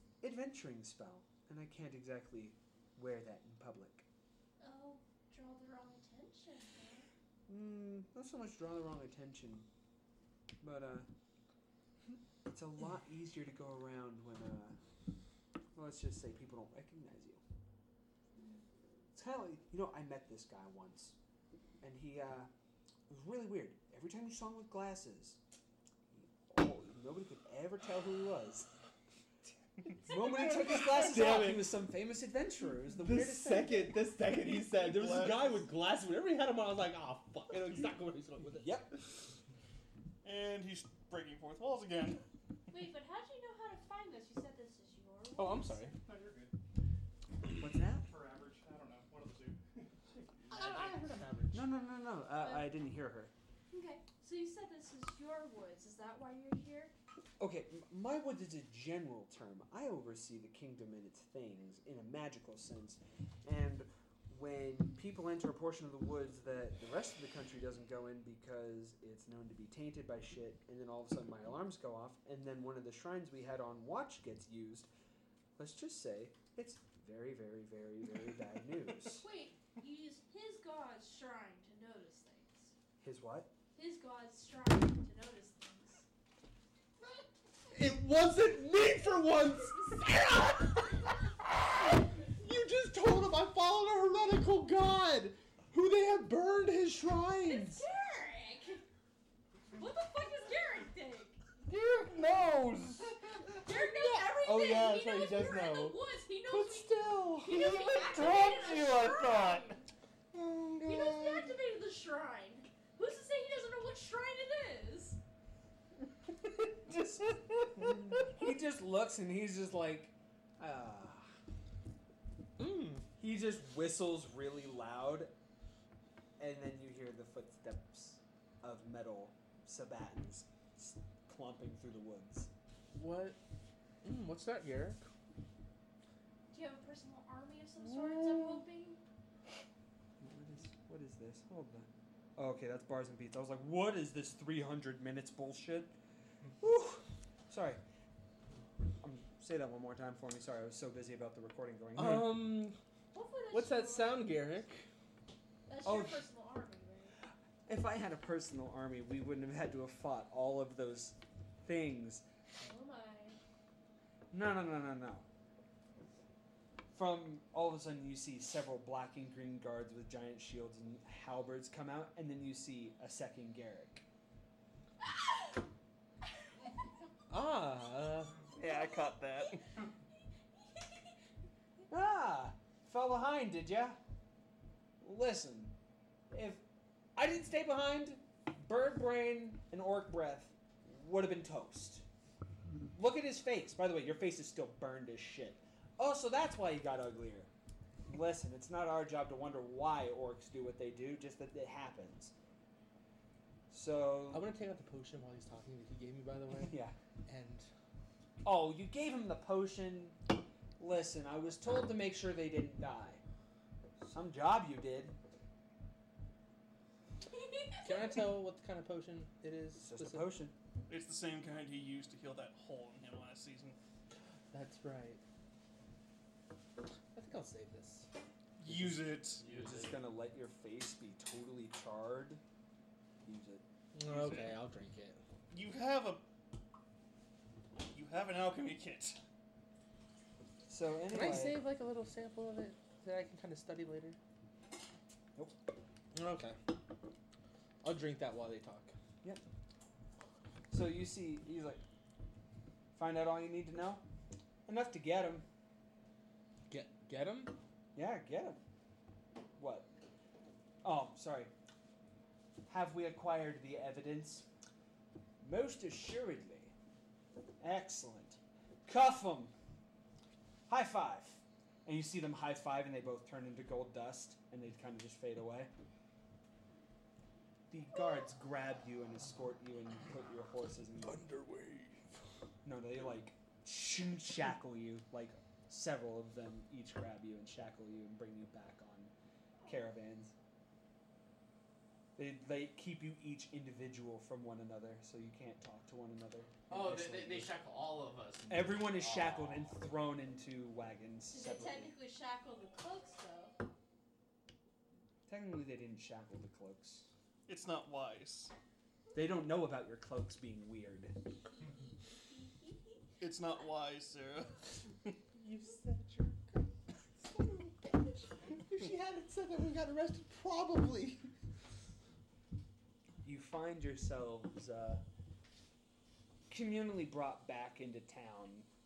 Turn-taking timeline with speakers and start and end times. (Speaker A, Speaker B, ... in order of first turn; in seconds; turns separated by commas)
Speaker A: 0.2-4.1, Speaker B: 4.6-7.1, Speaker A: 7.5-9.7, Speaker A: 10.6-11.1, Speaker A: 12.4-14.8, Speaker A: 15.8-17.4, Speaker A: 19.1-21.2, Speaker A: 21.8-22.5, Speaker A: 23.1-25.4, Speaker A: 26.1-28.8, Speaker A: 30.0-34.1, Speaker C: 30.8-31.6, Speaker C: 33.0-38.9, Speaker D: 34.4-35.6, Speaker A: 38.5-38.9, Speaker D: 40.2-42.2, Speaker B: 42.7-45.9, Speaker C: 45.4-46.0, Speaker E: 46.0-46.5, Speaker A: 47.6-48.1, Speaker E: 48.0-50.2, Speaker C: 50.5-51.6, Speaker B: 50.5-51.1, Speaker A: 51.5-53.3, Speaker B: 52.4-52.7, Speaker B: 53.7-56.9, Speaker A: 57.4-74.9, Speaker A: 75.6-79.3, Speaker B: 79.2-82.7, Speaker A: 83.0-83.5, Speaker B: 83.8-86.0, Speaker C: 87.7-97.8, Speaker B: 97.4-98.8, Speaker B: 99.7-101.4, Speaker D: 101.6-103.2, Speaker C: 103.4-107.9, Speaker B: 103.5-109.9, Speaker D: 107.5-109.8, Speaker C: 110.3-111.6, Speaker B: 110.8-115.2, Speaker A: 116.8-121.3, Speaker C: 122.6-123.0, Speaker A: 123.2-125.3, Speaker A: 126.4-132.5, Speaker C: 132.9-133.4, Speaker C: 134.0-135.0, Speaker B: 136.5-139.0, Speaker C: 138.1-138.4, Speaker A: 140.2-145.9, Speaker A: 146.6-147.8, Speaker A: 149.0-152.4, Speaker C: 151.9-152.8, Speaker B: 153.1-154.5, Speaker C: 153.5-154.9, Speaker B: 155.7-157.2, Speaker A: 155.8-156.3, Speaker A: 157.7-162.3, Speaker B: 162.6-163.4, Speaker A: 164.3-165.3, Speaker A: 166.9-174.1, Speaker C: 177.3-178.5, Speaker D: 178.6-179.7, Speaker A: 181.9-184.0, Speaker A: 185.0-185.7, Speaker A: 186.3-186.6, Speaker A: 187.2-192.1, Speaker A: 192.9-197.5, Speaker A: 198.1-202.3, Speaker A: 203.7-204.5, Speaker C: 204.3-207.7, Speaker A: 206.6-207.0, Speaker A: 208.4-210.3, Speaker A: 210.8-213.2, Speaker A: 214.0-215.2, Speaker B: 217.3-218.3, Speaker C: 217.8-220.3, Speaker A: 219.8-220.6, Speaker D: 220.9-223.8, Speaker C: 224.5-225.2, Speaker C: 227.1-228.1, Speaker D: 228.6-229.5, Speaker C: 228.7-229.0, Speaker F: 229.4-230.0, Speaker A: 229.4-232.4, Speaker A: 233.2-233.6, Speaker C: 233.9-235.2, Speaker D: 234.1-234.6, Speaker D: 235.5-236.2, Speaker D: 237.8-239.2, Speaker A: 240.7-241.6, Speaker C: 241.1-244.2, Speaker C: 246.1-246.7, Speaker C: 247.8-248.9, Speaker A: 250.7-251.8, Speaker A: 252.9-254.0, Speaker A: 254.7-255.5, Speaker C: 256.7-257.5, Speaker A: 258.0-258.6, Speaker A: 259.6-259.9, Speaker A: 260.8-261.5, Speaker A: 262.7-264.5, Speaker A: 265.4-266.7, Speaker A: 267.6-269.5, Speaker A: 270.7-275.7, Speaker A: 277.7-281.2, Speaker C: 281.0-282.2, Speaker A: 282.6-289.1, Speaker A: 289.6-290.3, Speaker A: 292.2-297.6, Speaker F: 296.7-299.8, Speaker A: 298.5-301.9, Speaker B: 301.3-303.6, Speaker A: 305.3-307.1, Speaker D: 307.5-308.5, Speaker A: 309.1-311.1, Speaker B: 312.4-312.9, Speaker D: 313.2-315.1, Speaker C: 315.4-321.3, Speaker A: 323.2-325.0, Speaker A: 326.5-328.7